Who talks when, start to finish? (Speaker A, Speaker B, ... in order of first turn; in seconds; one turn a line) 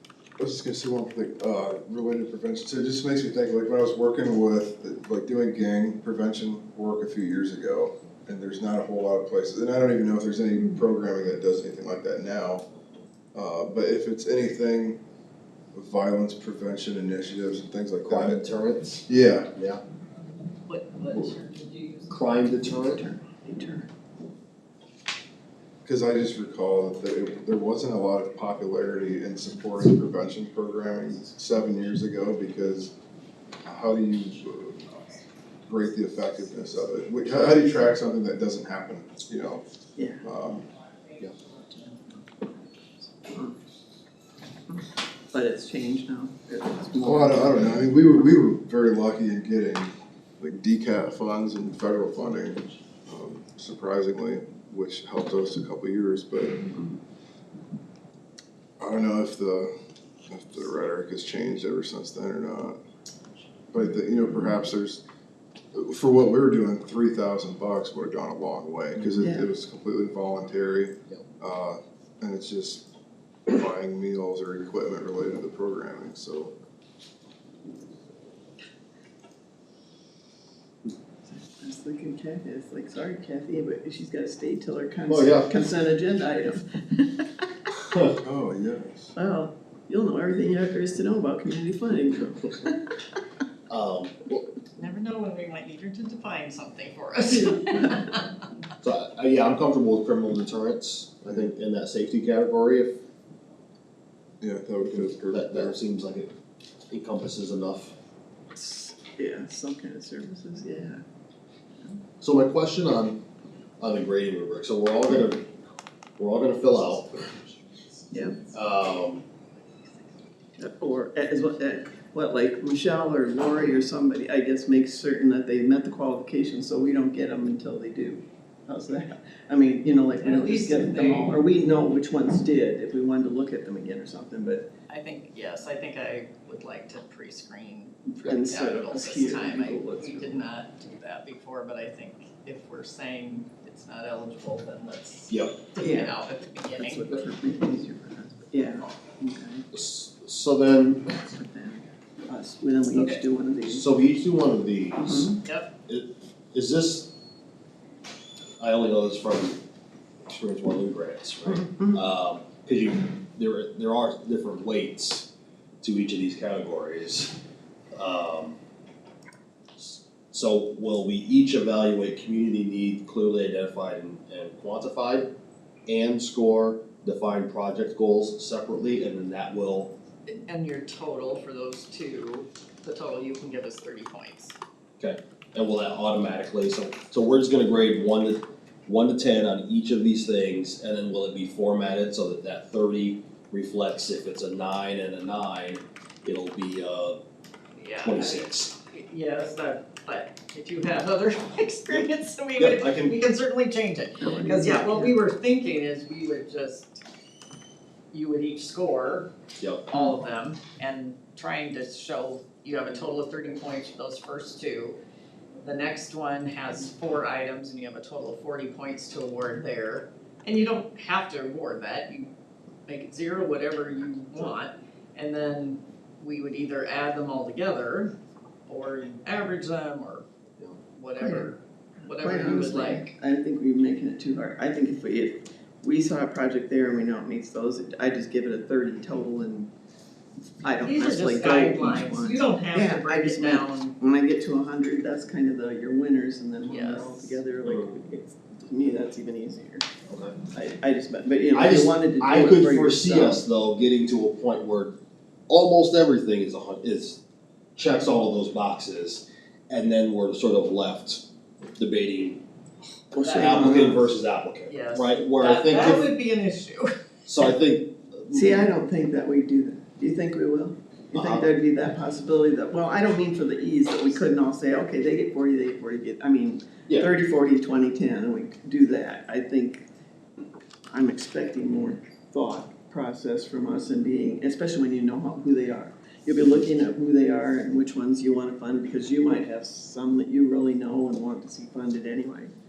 Speaker A: 0.4-12.7
Speaker A: 13.3-15.0
Speaker A: 15.7-18.4
Speaker B: 18.0-19.8
Speaker A: 19.1-19.5
Speaker C: 20.7-22.2
Speaker B: 21.1-21.4
Speaker B: 22.1-23.0
Speaker D: 22.7-23.9
Speaker A: 25.9-32.9
Speaker A: 33.6-39.6
Speaker D: 40.0-40.2
Speaker A: 40.2-40.7
Speaker D: 41.7-43.6
Speaker D: 44.7-47.9
Speaker A: 47.0-56.6
Speaker D: 56.7-57.0
Speaker A: 58.8-59.7
Speaker A: 60.3-62.8
Speaker A: 63.7-65.0
Speaker A: 65.7-72.9
Speaker D: 69.2-69.5
Speaker A: 73.5-76.5
Speaker D: 81.2-87.4
Speaker B: 85.1-85.6
Speaker B: 87.8-88.2
Speaker A: 88.2-89.1
Speaker D: 89.2-93.0
Speaker B: 93.7-94.5
Speaker C: 94.8-98.5
Speaker B: 98.8-103.0
Speaker A: 104.4-105.8
Speaker B: 104.9-106.3
Speaker B: 106.9-107.9
Speaker D: 108.5-111.0
Speaker B: 112.2-113.2
Speaker B: 113.8-115.5
Speaker B: 116.2-117.3
Speaker D: 118.1-118.4
Speaker B: 118.5-119.2
Speaker D: 120.5-134.7
Speaker C: 130.2-131.4
Speaker C: 134.9-147.3
Speaker D: 138.2-140.4
Speaker B: 145.3-145.6
Speaker D: 145.8-146.2
Speaker D: 146.8-149.7
Speaker B: 149.7-151.1
Speaker D: 151.1-153.9
Speaker C: 152.9-153.2
Speaker B: 153.7-155.3
Speaker D: 155.0-155.4
Speaker C: 155.4-155.7
Speaker B: 155.9-157.1
Speaker B: 158.6-159.6
Speaker B: 160.3-165.3
Speaker D: 161.6-161.9
Speaker B: 165.8-167.4
Speaker B: 167.9-168.6
Speaker B: 169.8-175.3
Speaker B: 175.9-179.9
Speaker C: 180.3-184.6
Speaker B: 185.0-197.2
Speaker C: 197.8-207.0
Speaker B: 198.0-198.7
Speaker B: 202.6-203.2
Speaker D: 204.2-205.1
Speaker C: 208.1-209.3
Speaker B: 209.6-209.9
Speaker C: 209.9-215.0
Speaker C: 215.6-222.3
Speaker C: 222.9-228.1
Speaker C: 228.7-230.3
Speaker C: 230.9-233.1
Speaker D: 231.2-231.5
Speaker D: 232.1-239.7
Speaker D: 240.6-249.9
Speaker C: 240.8-243.9
Speaker C: 246.7-247.4
Speaker B: 247.7-247.9
Speaker B: 250.1-250.4
Speaker D: 250.5-253.4
Speaker B: 251.5-255.0
Speaker B: 255.5-257.2
Speaker B: 257.8-261.2
Speaker B: 261.8-262.4
Speaker D: 263.1-264.1
Speaker C: 263.2-263.8
Speaker B: 263.2-266.1
Speaker C: 264.7-266.9
Speaker B: 267.3-268.7
Speaker D: 268.3-279.8
Speaker B: 271.1-271.5
Speaker D: 280.9-292.5